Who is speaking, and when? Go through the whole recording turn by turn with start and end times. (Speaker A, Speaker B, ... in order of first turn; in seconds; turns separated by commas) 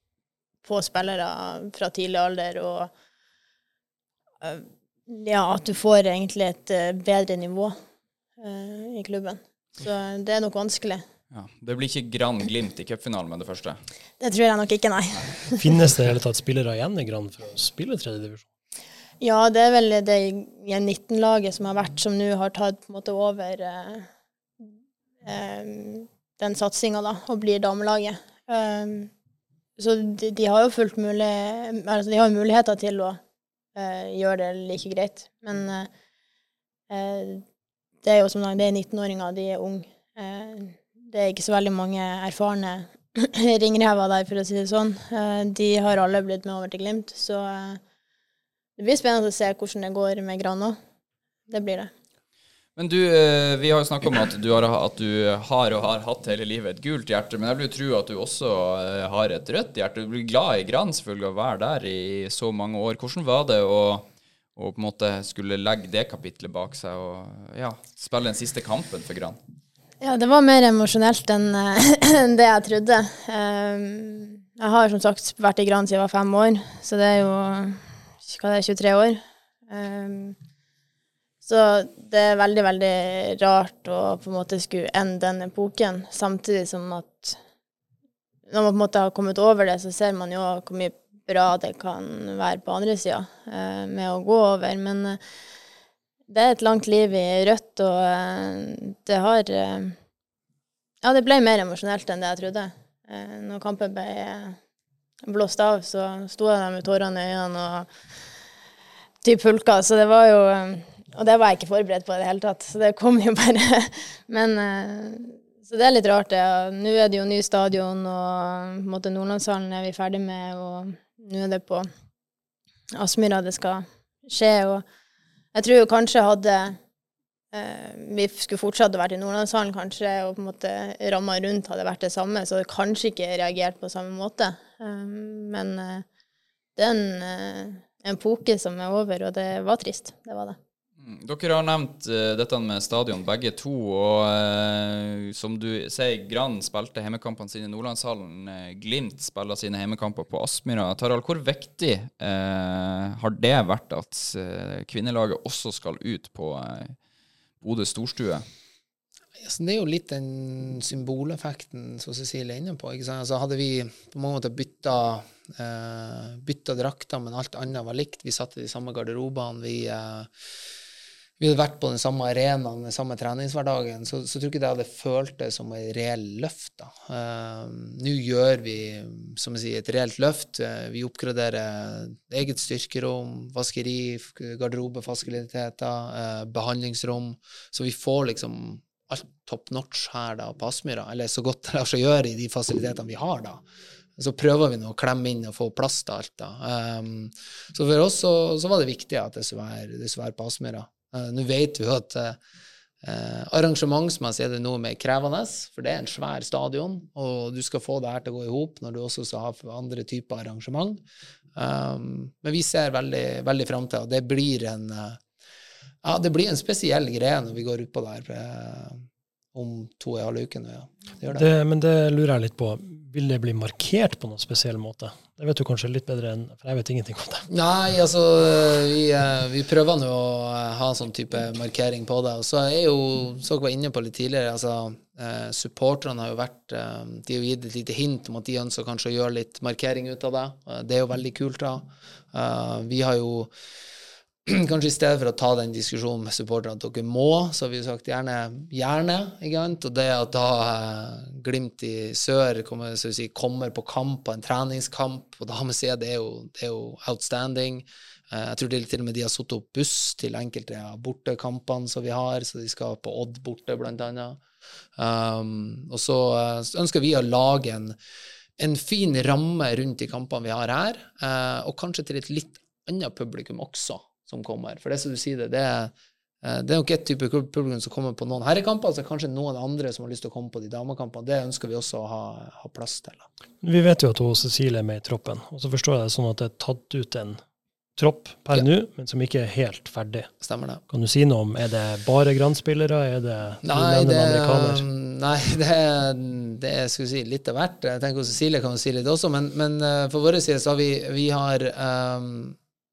Speaker A: 0.6-2.9, Speaker A: 4.4-7.7, Speaker A: 8.4-11.0, Speaker B: 11.3-13.8, Speaker A: 14.2-15.6, Speaker C: 15.6-18.5, Speaker A: 19.2-24.1, Speaker A: 25.2-29.1, Speaker A: 29.8-33.2, Speaker A: 33.7-35.9, Speaker A: 36.9-37.4, Speaker A: 38.0-47.8, Speaker A: 48.8-50.8, Speaker A: 51.5-51.9, Speaker B: 52.8-69.4, Speaker A: 70.0-80.4, Speaker A: 81.4-87.4, Speaker A: 88.5-95.2, Speaker A: 96.3-100.0, Speaker A: 101.0-104.6, Speaker A: 105.2-107.9, Speaker A: 109.2-121.9, Speaker A: 122.9-124.8, Speaker A: 125.5-126.8, Speaker A: 127.5-136.0, Speaker A: 136.8-140.6, Speaker B: 141.0-156.9, Speaker B: 157.6-158.4, Speaker D: 159.4-170.3, Speaker D: 171.4-193.6, Speaker D: 194.2-202.4, Speaker D: 203.0-211.0, Speaker D: 211.5-215.2, Speaker D: 216.0-221.5, Speaker C: 221.3-227.5, Speaker D: 227.5-243.5, Speaker D: 244.4-264.4, Speaker D: 264.9-267.9, Speaker D: 268.6-283.3, Speaker C: 283.6-287.4, Speaker C: 288.0-290.3, Speaker D: 290.4-290.8, Speaker C: 290.9-294.8, Speaker D: 293.6-302.6